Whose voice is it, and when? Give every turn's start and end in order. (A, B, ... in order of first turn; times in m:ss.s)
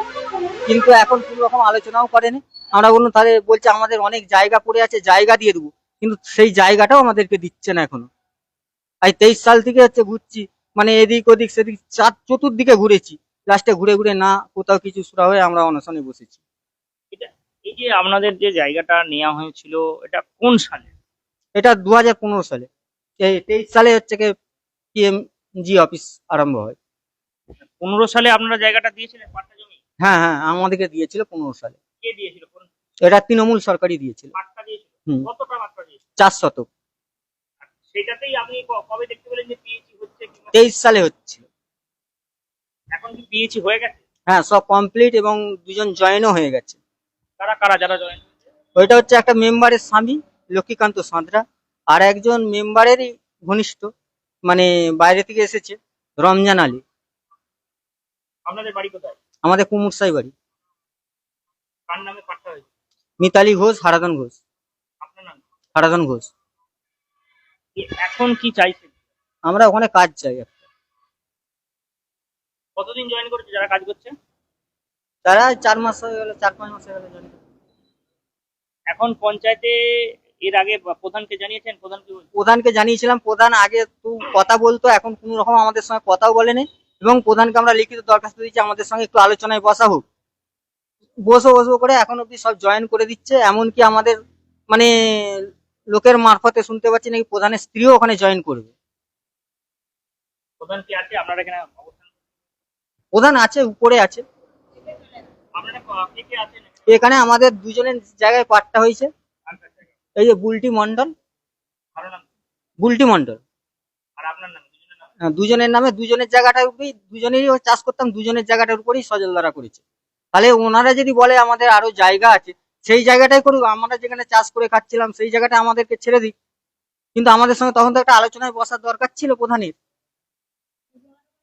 0:00.7-0:08.1 A
0:09.0-0:16.4 A
0:17.1-0:20.9 B
0:21.6-0:22.7 A
0:23.2-0:24.3 A
0:24.9-0:26.8 A
0:27.8-0:29.8 B
0:30.0-0:31.8 A
0:32.0-0:32.6 B
0:33.0-0:34.3 A
0:34.3-0:36.0 B
0:36.2-0:36.6 A
0:37.7-0:40.5 B
0:40.5-0:41.4 A
0:42.9-0:44.0 B
0:44.3-0:46.8 A
0:47.4-0:48.2 B
0:48.8-0:53.9 A
0:54.4-0:56.8 A
0:58.5-0:59.2 B
0:59.4-1:00.3 A
1:01.9-1:02.6 B
1:03.2-1:04.4 A
1:05.0-1:05.4 B
1:05.7-1:06.3 A
1:07.8-1:08.9 B
1:09.4-1:10.5 A
1:12.8-1:14.1 B
1:15.2-1:17.3 A
1:18.9-1:19.7 B
1:20.4-1:22.3 B
1:22.3-1:30.0 A
1:31.2-1:34.2 A
1:34.7-1:38.7 A
1:40.6-1:42.0 B
1:43.1-1:44.2 A
1:45.6-1:46.7 B
1:46.9-1:49.1 A
1:49.5-1:49.8 B
1:50.2-1:51.1 A
1:52.0-1:52.2 B
1:52.8-1:53.4 A
1:54.2-1:54.9 B
1:55.3-1:59.8 A
2:00.3-2:06.3 A
2:07.1-2:09.7 A